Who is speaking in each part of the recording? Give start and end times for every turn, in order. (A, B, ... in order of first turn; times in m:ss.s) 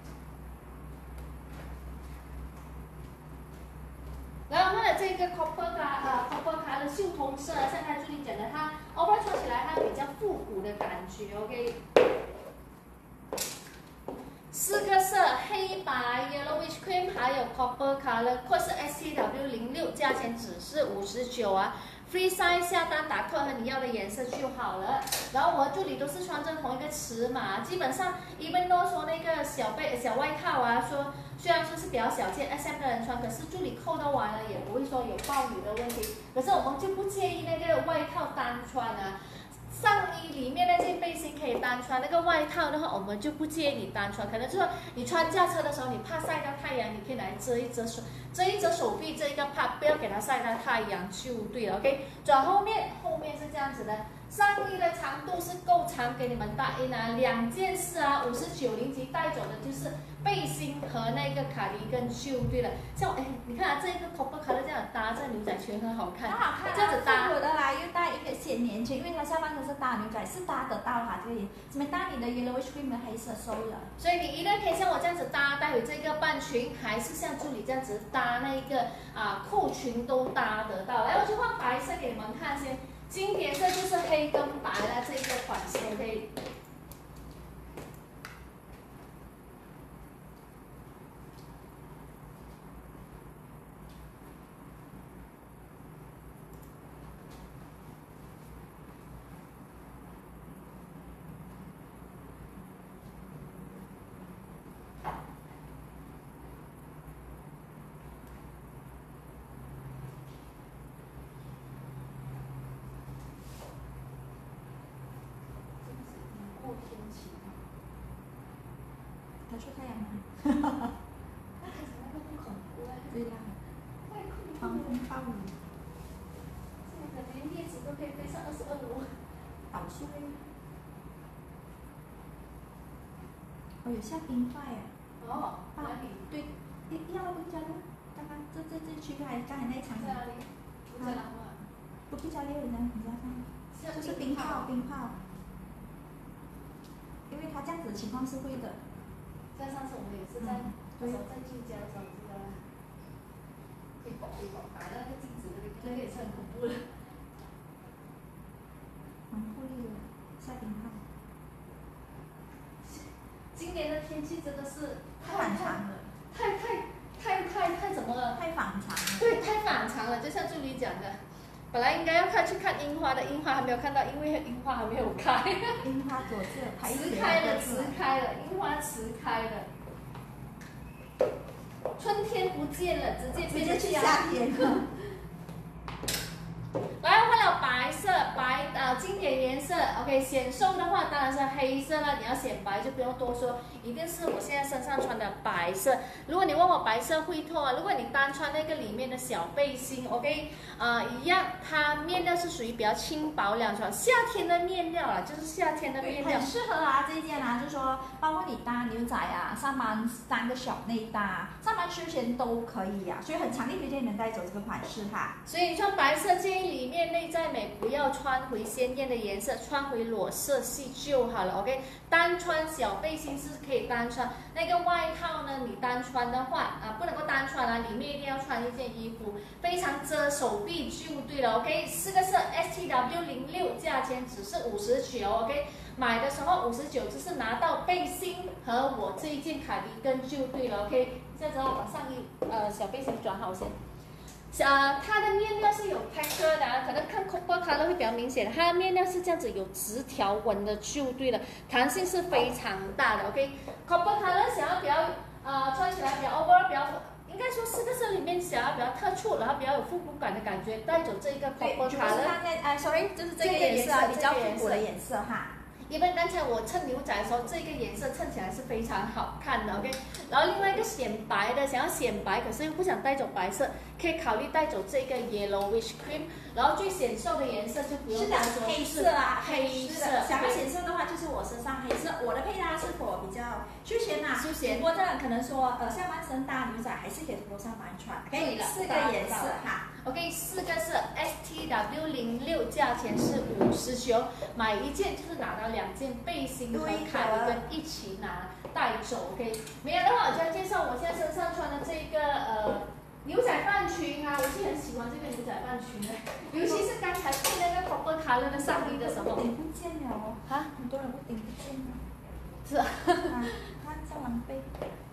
0:04.5-0:11.8 A
0:14.5-0:39.2 A
0:39.7-1:07.3 A
1:06.2-1:13.9 B
1:14.0-1:26.3 A
1:55.8-1:57.6 A
1:59.5-2:00.9 B
2:01.6-2:03.1 A
2:03.1-2:03.6 B
2:04.0-2:05.0 A
2:04.6-2:05.6 B
2:06.8-2:09.1 A
2:09.7-2:10.4 B
2:13.8-2:14.9 B
2:15.2-2:16.3 A
2:15.8-2:20.2 B
2:19.9-2:21.6 A
2:22.1-2:25.1 B
2:23.7-2:24.7 A
2:27.3-2:28.8 B
2:29.5-2:32.6 A
2:30.4-2:31.2 B
2:34.0-2:36.8 A
2:39.3-2:41.0 B
2:42.8-2:45.8 A
2:45.2-2:46.1 B
2:46.3-2:48.4 A
2:48.4-2:49.3 B
2:49.2-2:51.2 A
2:51.7-2:55.9 A
2:55.8-2:58.0 B
2:56.8-2:59.7 A
3:02.0-3:05.0 A
3:03.5-3:04.8 B
3:07.0-3:26.5 A
3:26.0-3:35.4 B
3:35.4-4:03.8 A
4:04.5-4:22.4 A
4:21.6-4:25.5 B
4:23.4-4:24.8 A
4:25.9-4:40.6 A
4:38.1-4:49.8 B
4:44.3-4:44.8 A
4:48.3-5:09.5 A
4:56.7-4:57.6 B
5:06.6-5:06.8 B
5:08.5-5:12.0 B
5:12.6-5:13.4 A
5:13.3-5:14.7 B